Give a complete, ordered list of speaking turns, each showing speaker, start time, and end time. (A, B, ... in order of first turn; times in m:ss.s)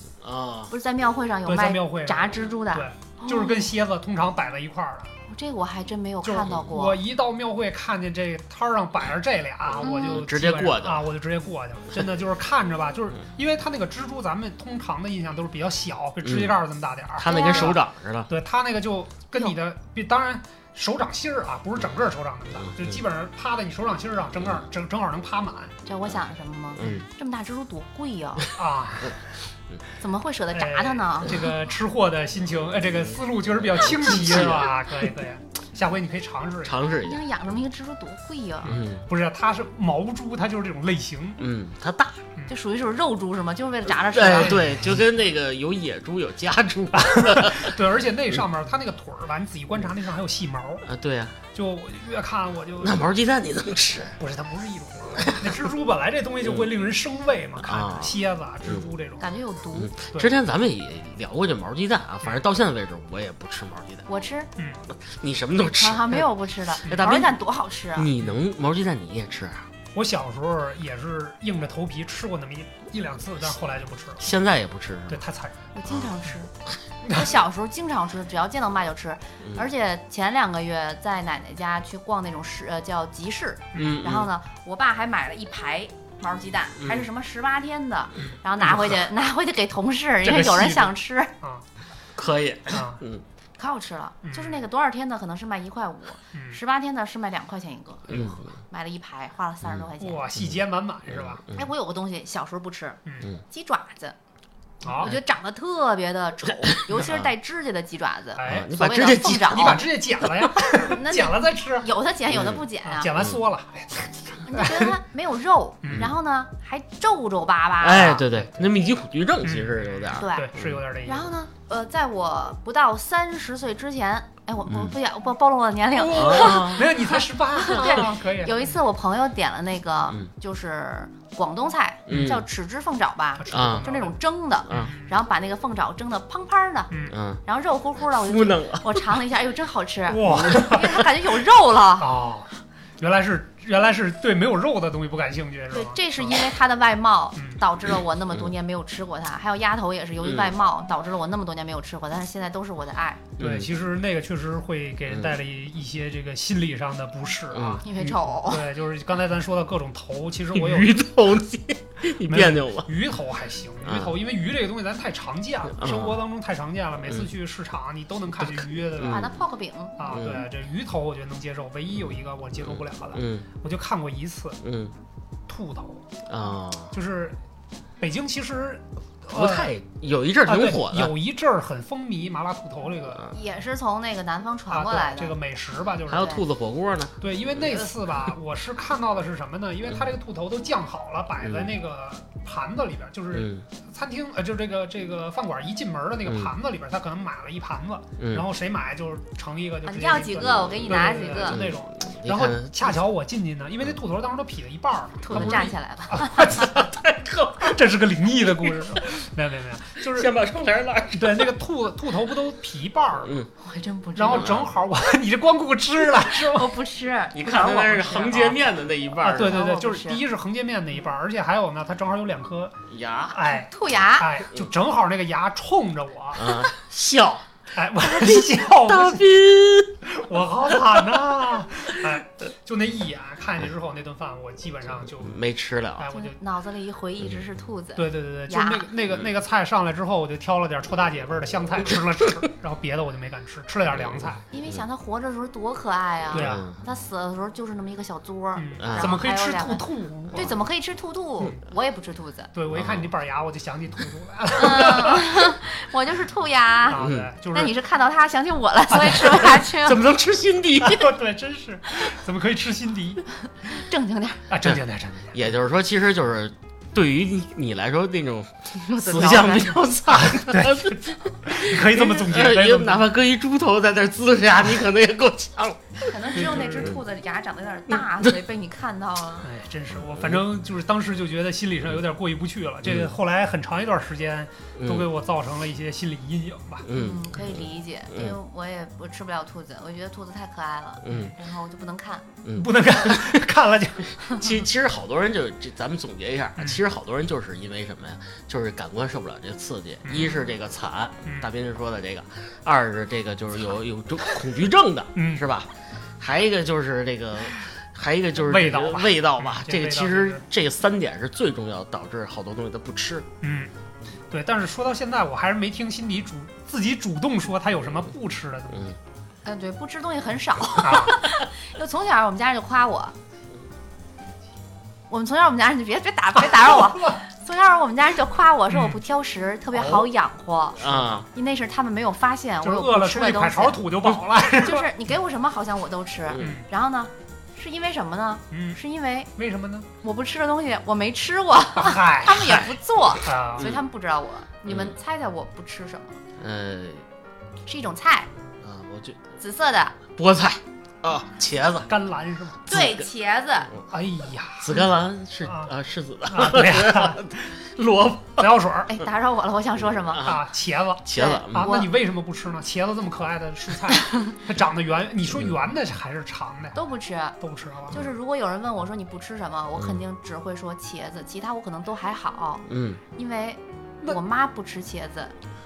0:00.2-0:00.7 A
0:00.7-0:03.7 B
0:01.4-0:05.1 C
0:05.3-0:07.0 B
0:06.2-0:25.7 C
0:09.8-0:11.0 A
0:09.8-0:10.2 B
0:16.2-0:16.6 A
0:17.2-0:18.3 A
0:17.2-0:17.8 B
0:25.9-0:28.5 B
0:26.8-0:27.0 A
0:28.6-0:29.2 C
0:30.0-0:31.4 B
0:30.5-0:36.8 C
0:33.8-0:34.7 A
0:36.6-0:37.2 A
0:37.0-0:38.8 B
0:38.6-0:39.0 A
0:38.6-0:41.4 C
0:41.4-0:42.2 A
0:42.5-0:44.7 B
0:44.1-0:47.8 A
0:44.3-0:45.0 C
0:46.9-0:50.9 C
0:50.8-0:51.4 A
0:51.5-0:53.0 C
0:52.8-0:54.2 A
0:54.2-0:59.3 C
0:55.2-0:55.4 A
0:57.6-0:58.9 A
0:59.2-0:59.9 B
0:59.7-1:04.0 A
1:04.1-1:04.5 B
1:04.6-1:04.8 C
1:04.9-1:06.3 A
1:05.8-1:08.1 B
1:06.8-1:07.4 A
1:07.9-1:09.7 A
1:09.9-1:14.3 C
1:14.2-1:15.2 A
1:15.1-1:15.6 C
1:15.8-1:16.5 B
1:17.0-1:31.3 B
1:23.7-1:24.0 C
1:23.7-1:24.3 A
1:30.2-1:31.6 C
1:32.2-1:33.2 A
1:32.7-1:33.0 C
1:33.6-1:40.3 B
1:34.2-1:34.6 C
1:36.3-1:36.6 C
1:38.1-1:38.4 A
1:40.0-1:41.4 C
1:41.1-1:41.6 A
1:41.5-1:43.0 B
1:43.0-1:43.3 C
1:43.5-1:44.1 B
1:44.8-1:45.1 C
1:44.9-1:49.9 B
1:46.9-1:47.3 A
1:48.4-1:48.7 C
1:48.4-1:49.9 A
1:49.4-1:51.9 C
1:50.5-1:53.1 B
1:52.3-1:52.6 A
1:52.8-1:55.0 C
1:54.4-1:58.2 B
1:55.8-1:56.1 C
1:57.8-2:00.8 A
1:58.2-1:58.6 C
1:59.4-2:01.3 C
2:00.1-2:00.5 B
2:01.0-2:16.9 B
2:04.7-2:04.9 A
2:05.9-2:08.8 C
2:06.1-2:06.9 A
2:12.1-2:12.4 A
2:13.4-2:14.2 C
2:13.5-2:13.9 A
2:14.7-2:15.1 C
2:17.1-2:17.4 A
2:17.4-2:22.1 B
2:18.2-2:19.0 A
2:20.1-2:21.0 C
2:20.3-2:20.6 A
2:22.0-2:26.4 C
2:25.7-2:33.2 B
2:27.4-2:27.6 C
2:30.2-2:30.5 A
2:33.4-2:33.7 A
2:33.4-2:37.9 C
2:37.5-2:38.0 A
2:37.8-2:38.7 B
2:38.4-2:41.0 C
2:40.5-2:42.9 A
2:42.2-2:49.3 C
2:43.8-2:44.1 A
2:45.8-2:46.2 A
2:48.4-2:49.3 A
2:49.0-2:50.1 B
2:50.0-2:54.6 C
2:50.1-2:50.4 A
2:52.6-2:53.4 A
2:54.6-2:54.9 A
2:55.5-2:56.0 C
2:56.3-2:56.9 A
2:56.9-2:57.4 C
2:58.0-2:59.7 C
2:59.3-3:01.1 A
3:00.4-3:03.3 C
3:03.3-3:05.4 B
3:04.7-3:06.4 C
3:06.1-3:07.9 A
3:07.2-3:26.9 C
3:11.4-3:11.7 A
3:13.4-3:13.6 A
3:18.2-3:18.4 A
3:19.8-3:21.6 B
3:21.5-3:23.0 A
3:25.2-3:26.7 B
3:25.3-3:25.6 A
3:26.4-3:27.8 A
3:27.6-3:30.3 C
3:28.4-3:29.0 A
3:30.0-3:31.6 A
3:31.1-3:33.4 C
3:33.2-3:33.5 A
3:33.6-3:34.6 B
3:34.2-3:36.7 C
3:34.3-3:34.7 A
3:36.2-3:38.2 B
3:37.3-3:39.6 A
3:37.5-3:38.6 C
3:39.2-3:42.8 C
3:39.4-3:40.2 B
3:42.9-3:43.4 A
3:43.3-3:46.6 C
3:43.5-3:44.3 B
3:46.4-3:47.5 A
3:47.8-3:49.4 C
3:48.2-3:50.0 A
3:50.0-3:55.4 C
3:55.1-3:56.0 A
3:56.0-3:56.4 C
3:56.1-3:58.9 B
3:58.0-4:04.4 C
4:04.0-4:04.8 A
4:04.5-4:12.5 B
4:06.3-4:06.6 C
4:06.3-4:06.8 A
4:08.6-4:10.5 C
4:08.8-4:09.2 A
4:12.5-4:15.5 C
4:12.7-4:13.1 A
4:14.6-4:20.1 B
4:16.9-4:17.7 C
4:16.9-4:17.3 A
4:19.0-4:19.4 C
4:19.6-4:21.1 A
4:20.8-4:23.2 C
4:23.6-4:24.4 B
4:24.5-4:25.4 C
4:25.3-4:37.0 A
4:28.7-4:29.8 B
4:30.2-4:33.1 C
4:36.0-4:39.5 B
4:39.4-4:46.9 C
4:42.8-4:43.1 A
4:44.8-4:45.1 A
4:46.8-4:48.4 A
4:46.9-4:52.3 B
4:51.0-4:51.3 A
4:52.4-4:53.4 A
4:52.5-4:54.2 C
4:54.2-5:13.3 A
5:00.0-5:00.4 C
5:05.2-5:05.4 C
5:08.4-5:10.4 C
5:13.4-5:13.7 C
5:14.3-5:18.9 C
5:19.4-5:23.1 B
5:20.8-5:21.1 C
5:25.1-5:33.8 B
5:26.6-5:27.2 C
5:28.7-5:29.0 C
5:29.8-5:30.1 C
5:30.8-5:31.2 A
5:30.8-5:31.2 C
5:32.6-5:34.9 C
5:34.6-5:39.3 B
5:36.3-5:36.6 A
5:36.4-5:36.6 C
5:38.5-5:38.8 C
5:39.4-5:39.9 C
5:40.0-5:46.2 B
5:41.8-5:42.5 C
5:43.2-5:43.7 C
5:44.7-5:44.9 A
5:46.4-5:47.0 A
5:47.6-5:48.3 B
5:48.6-5:49.2 A
5:49.4-5:50.0 B
5:50.2-5:51.9 A
5:51.9-5:52.7 C
5:52.7-5:53.0 A
5:52.7-5:53.7 B
5:53.9-5:54.8 C
5:54.6-5:58.6 A
5:55.4-5:55.7 C
5:56.3-5:57.3 C
5:58.4-5:58.9 C
5:58.9-6:00.3 B
6:00.1-6:00.4 A
6:00.2-6:06.8 C
6:01.0-6:01.8 A
6:01.1-6:01.9 B
6:06.7-6:07.4 B
6:07.4-6:08.0 C
6:07.9-6:15.3 B
6:09.8-6:10.0 A
6:12.7-6:13.0 A